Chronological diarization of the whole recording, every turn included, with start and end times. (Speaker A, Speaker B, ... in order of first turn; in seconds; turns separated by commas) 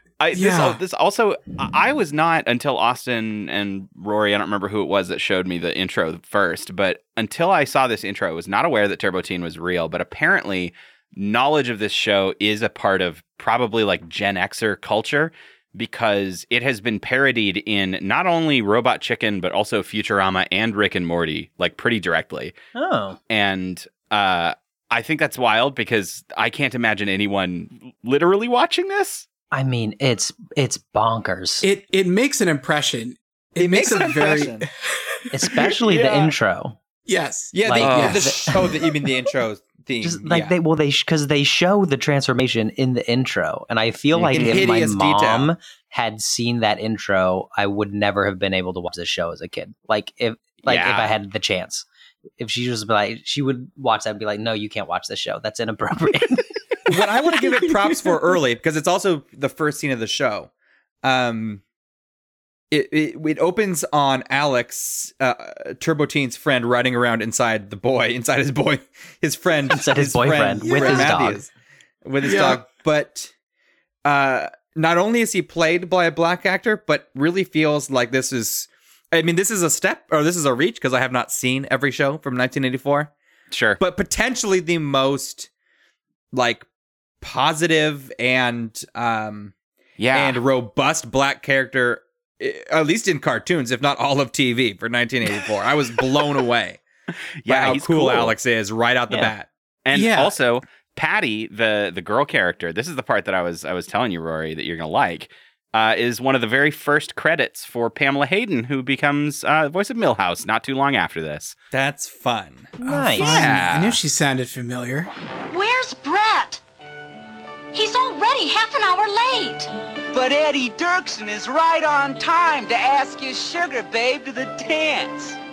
Speaker A: 0.2-22.5, Speaker B: 0.3-0.8, Speaker C: 22.8-23.2, Speaker A: 23.3-29.2, Speaker C: 29.5-31.7, Speaker B: 31.6-35.1, Speaker D: 33.6-34.7, Speaker C: 35.3-36.8, Speaker A: 36.0-36.3, Speaker B: 37.1-38.5, Speaker D: 37.5-40.6, Speaker C: 37.6-38.7, Speaker A: 37.8-38.2, Speaker C: 40.0-51.9, Speaker D: 44.1-45.5, Speaker A: 50.7-51.1, Speaker C: 52.4-56.5, Speaker D: 56.9-60.5, Speaker D: 61.0-61.6, Speaker D: 62.7-71.5, Speaker C: 69.7-71.4, Speaker B: 70.6-71.2, Speaker D: 72.0-73.3, Speaker B: 72.2-72.6, Speaker D: 74.0-83.1, Speaker A: 83.5-83.8, Speaker D: 83.8-85.5, Speaker D: 86.3-86.7, Speaker D: 87.2-89.5, Speaker A: 90.0-90.4, Speaker D: 90.1-96.8, Speaker A: 97.4-98.3, Speaker D: 97.5-99.5, Speaker A: 99.8-111.6, Speaker B: 99.9-100.3, Speaker D: 111.7-112.7, Speaker C: 112.8-113.5, Speaker B: 112.8-115.1, Speaker A: 113.2-114.0, Speaker E: 115.5-116.6, Speaker E: 117.7-119.7, Speaker F: 120.2-125.3